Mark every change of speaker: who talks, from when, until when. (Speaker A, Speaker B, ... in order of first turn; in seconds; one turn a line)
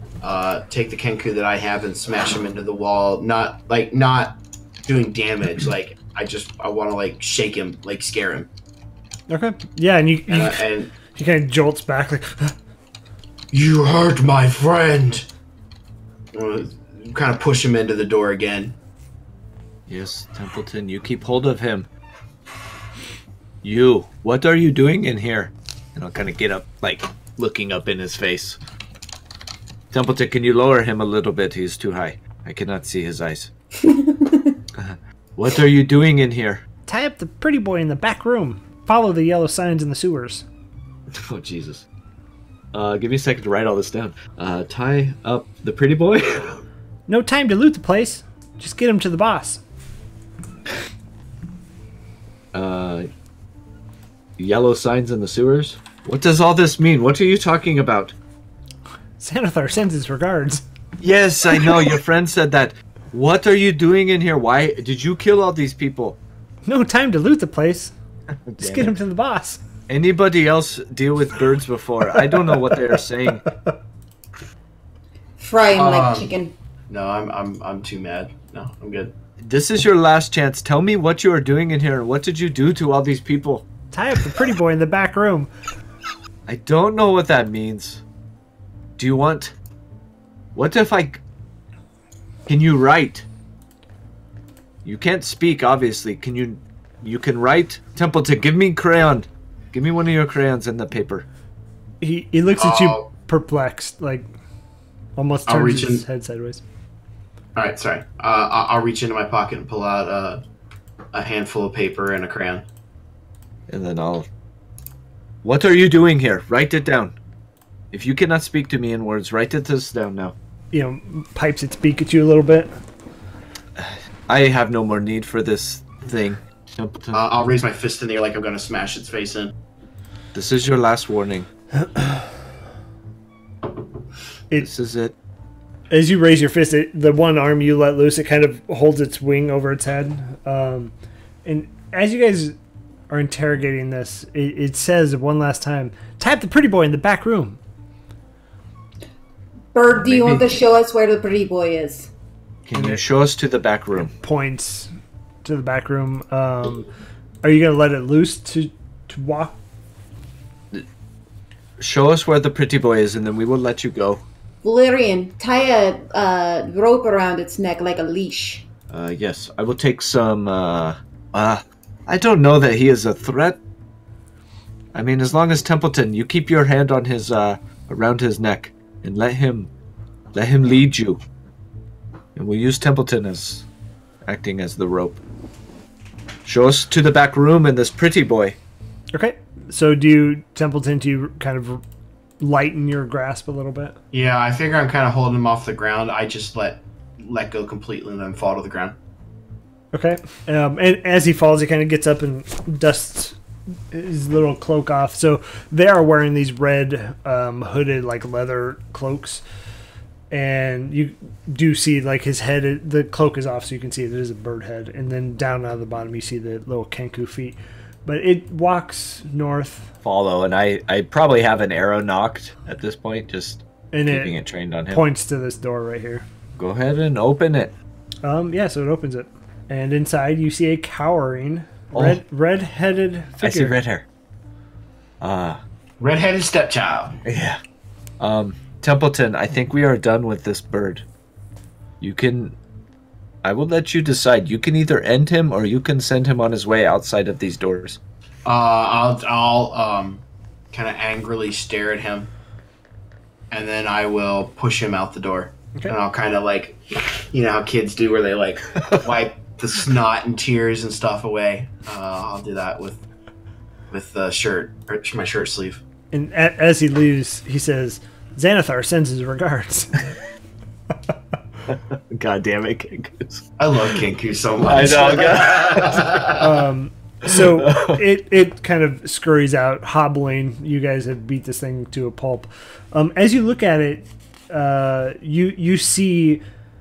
Speaker A: 0.2-8.5
Speaker B: 9.3-12.5
Speaker A: 10.3-10.9
Speaker A: 13.5-15.3
Speaker A: 16.3-18.8
Speaker C: 19.9-21.9
Speaker C: 23.6-28.6
Speaker C: 29.9-33.5
Speaker D: 33.8-34.6
Speaker C: 34.7-36.6
Speaker B: 36.9-40.4
Speaker C: 41.1-41.8
Speaker C: 42.7-46.6
Speaker B: 47.1-49.6
Speaker C: 52.5-53.1
Speaker C: 54.4-58.1
Speaker B: 59.2-60.6
Speaker C: 61.0-66.2
Speaker B: 66.7-67.9
Speaker C: 68.5-69.0
Speaker B: 68.6-69.6
Speaker C: 69.9-73.4
Speaker D: 75.4-76.5
Speaker A: 75.7-76.3
Speaker A: 76.9-79.1
Speaker C: 79.4-83.7
Speaker B: 83.9-85.5
Speaker C: 86.5-88.0
Speaker C: 89.0-89.5
Speaker C: 90.5-91.2
Speaker C: 92.5-93.2
Speaker C: 94.8-101.2
Speaker B: 102.0-104.2
Speaker A: 102.6-103.1
Speaker B: 105.2-106.6
Speaker A: 105.5-106.0
Speaker A: 107.5-110.4
Speaker A: 111.1-112.6
Speaker C: 113.7-114.3
Speaker C: 115.4-117.2
Speaker C: 117.9-120.3
Speaker B: 120.7-122.7
Speaker C: 123.8-127.2
Speaker A: 127.1-129.5
Speaker C: 130.3-131.5
Speaker B: 131.8-132.2
Speaker C: 134.6-135.1
Speaker B: 135.9-140.9
Speaker B: 141.4-142.6
Speaker B: 143.1-147.6
Speaker D: 149.7-152.1
Speaker C: 149.9-150.6
Speaker C: 152.6-154.1
Speaker B: 152.7-153.0
Speaker B: 153.9-154.9
Speaker B: 155.4-156.9
Speaker B: 157.4-159.6
Speaker C: 161.8-164.2
Speaker D: 164.6-168.6
Speaker C: 168.9-173.6
Speaker C: 174.9-179.7
Speaker C: 180.3-181.2
Speaker C: 182.3-183.6
Speaker C: 184.2-185.2
Speaker C: 186.4-188.6
Speaker B: 189.1-191.8
Speaker B: 192.4-193.9
Speaker A: 194.1-198.9
Speaker B: 199.9-203.4
Speaker B: 203.9-209.4
Speaker B: 210.3-219.9
Speaker C: 220.0-225.0
Speaker B: 223.9-224.4
Speaker B: 224.9-226.2
Speaker C: 226.6-227.7
Speaker B: 228.2-233.8
Speaker C: 231.9-232.2
Speaker C: 233.4-234.0
Speaker C: 235.2-235.6
Speaker A: 236.0-237.2
Speaker C: 237.2-237.6
Speaker C: 238.2-241.0
Speaker C: 242.0-242.6
Speaker C: 243.4-248.0
Speaker A: 248.4-252.3
Speaker A: 253.5-263.0
Speaker A: 263.9-265.8
Speaker B: 266.1-270.1
Speaker C: 271.7-273.5
Speaker A: 273.6-276.4
Speaker C: 274.6-276.3
Speaker B: 276.4-286.4
Speaker C: 277.2-278.0